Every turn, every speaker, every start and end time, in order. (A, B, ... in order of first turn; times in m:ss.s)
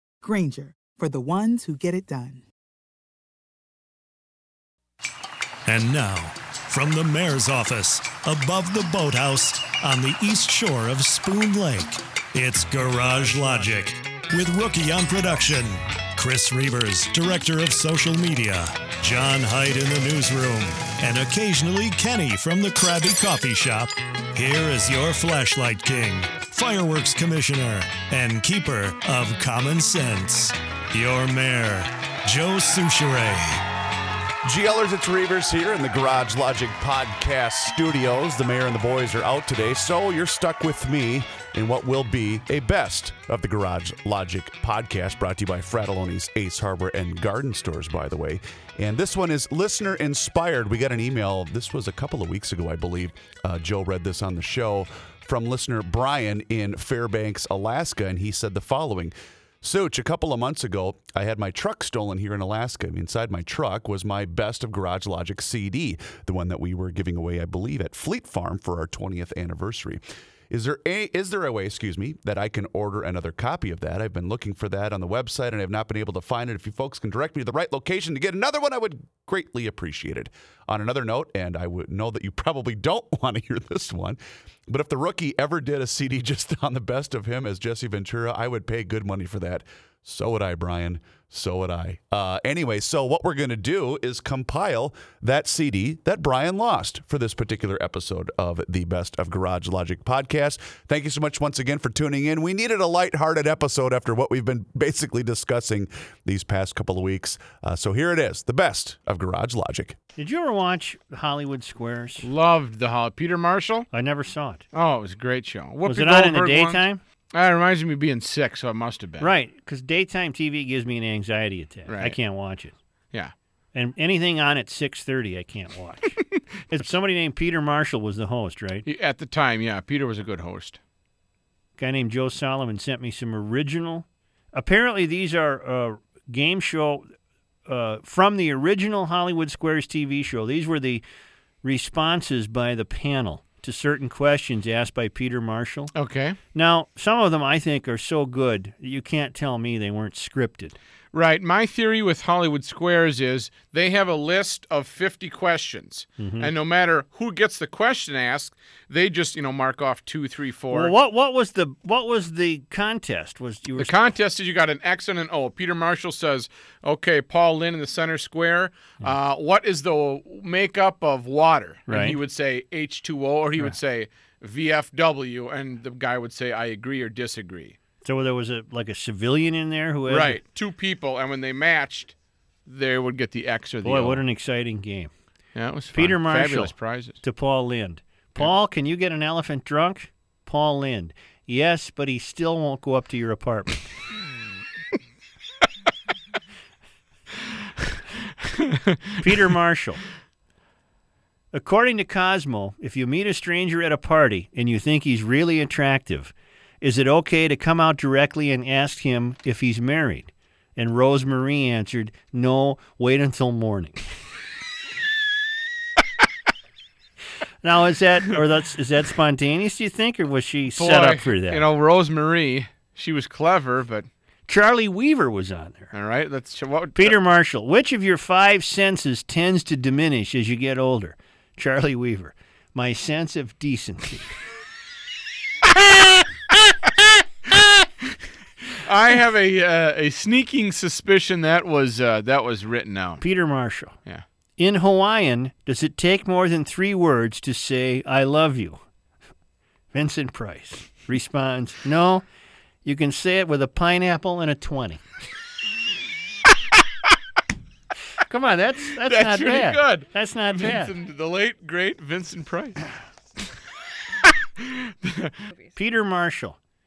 0:00.2-0:02.4 A
0:05.7-0:33.6 B
0:34.4-1:50.0 C
1:50.2-1:52.3 D
1:52.2-1:53.9 E
1:53.9-1:54.6 D
1:54.7-1:59.3 E
1:55.8-1:57.0 D
1:59.2-2:02.7 D
2:01.9-2:02.2 E
2:03.7-2:08.8 D
2:08.9-2:10.8 E
2:11.8-2:17.1 D
2:17.7-2:21.0 D
2:21.6-2:25.9 D
2:25.9-2:26.4 E
2:26.5-2:30.8 D
2:31.1-2:40.9 E
2:36.2-2:36.5 D
2:40.7-2:43.9 D
2:43.8-2:57.8 E
2:51.9-2:52.2 D
2:58.0-3:00.4 D
3:00.1-3:02.1 E
3:02.7-3:04.2 E
3:03.8-3:05.1 D
3:05.6-3:07.2 E
3:05.9-3:13.9 D
3:18.7-3:19.2 E
3:19.2-3:20.0 D
3:21.5-3:34.0 D
3:37.6-3:41.7 D
3:40.8-3:44.1 E
3:44.5-3:45.9 D
3:45.9-3:47.2 E
3:47.0-3:54.4 D
3:58.7-4:03.2 E
4:03.2-4:04.0 D
4:04.6-4:08.8 D
4:09.9-4:12.2 D
4:12.8-4:15.0 D
4:18.2-4:21.0 D
4:19.0-4:22.8 E
4:25.0-4:25.3 E
4:25.8-4:26.6 D